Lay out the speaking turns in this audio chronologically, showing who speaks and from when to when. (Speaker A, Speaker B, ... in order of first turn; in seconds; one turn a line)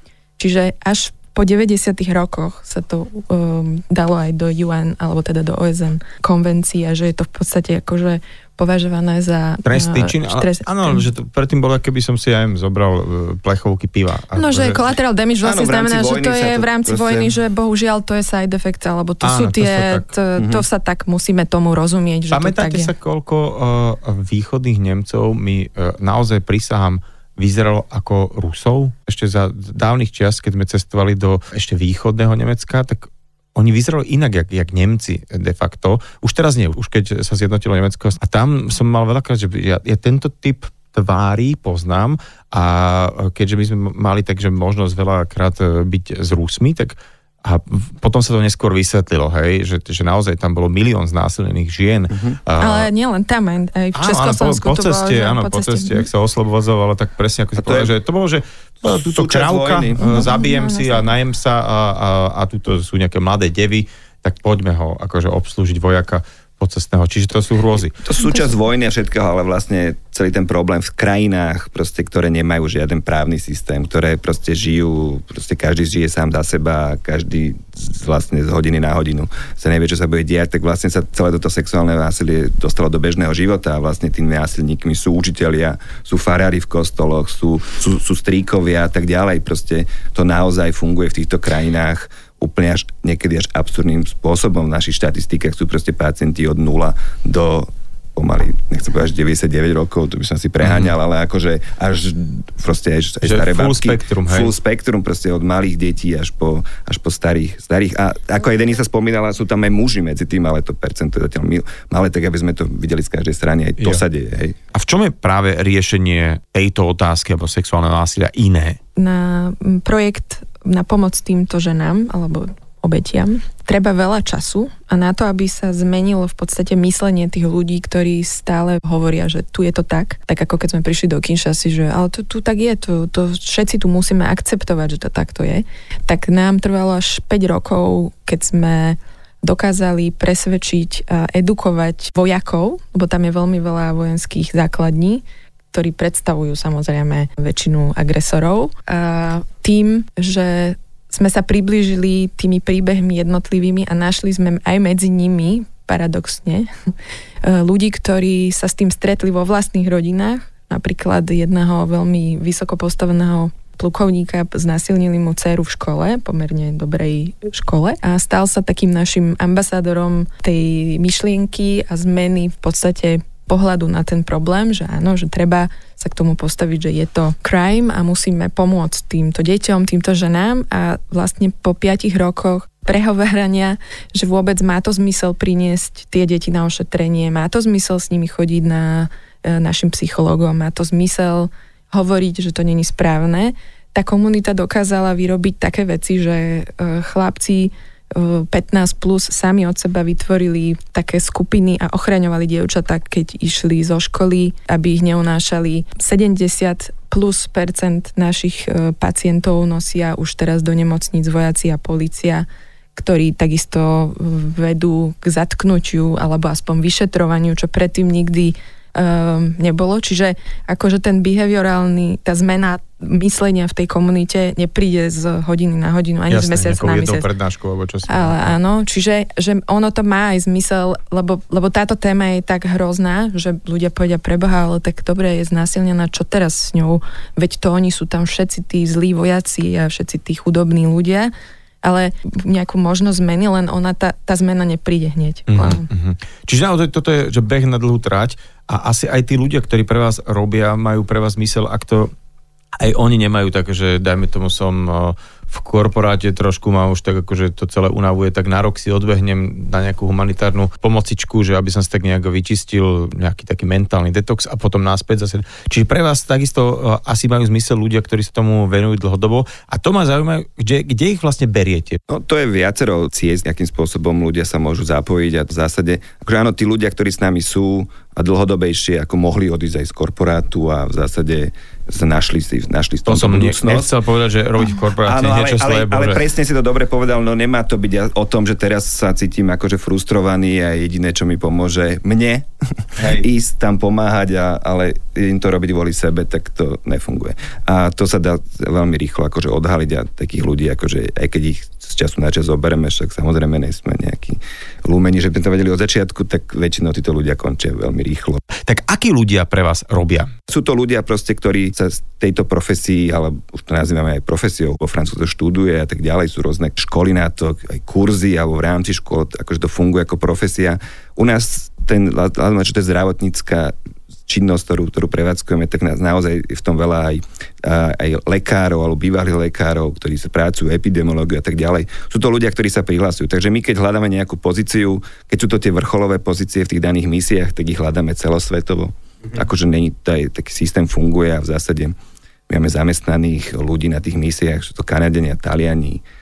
Speaker A: 0.4-11.1
Speaker B: 9.7-14.8
Speaker A: 14.4-22.9
Speaker C: 15.4-17.4
Speaker B: 19.2-20.1
Speaker C: 20.4-20.6
Speaker B: 22.3-52.9
Speaker C: 52.1-52.4
Speaker A: 52.6-56.1
Speaker B: 53.9-67.9
Speaker C: 57.6-57.9
Speaker C: 58.8-60.3
Speaker A: 60.0-61.1
Speaker C: 68.0-114.6
Speaker A: 68.2-68.5
Speaker B: 100.6-100.9
Speaker B: 103.2-104.5
Speaker B: 114.7-118.8
Speaker A: 119.0-156.7
Speaker A: 157.4-227.3
Speaker B: 226.3-228.6
Speaker A: 228.1-241.3
Speaker A: 241.8-245.9
Speaker B: 245.5-252.1
Speaker B: 252.8-272.0
Speaker C: 272.1-283.9
Speaker B: 283.1-286.2
Speaker C: 285.0-308.4
Speaker B: 308.6-310.3
Speaker C: 310.5-323.7
Speaker C: 324.3-341.9
Speaker C: 342.5-346.0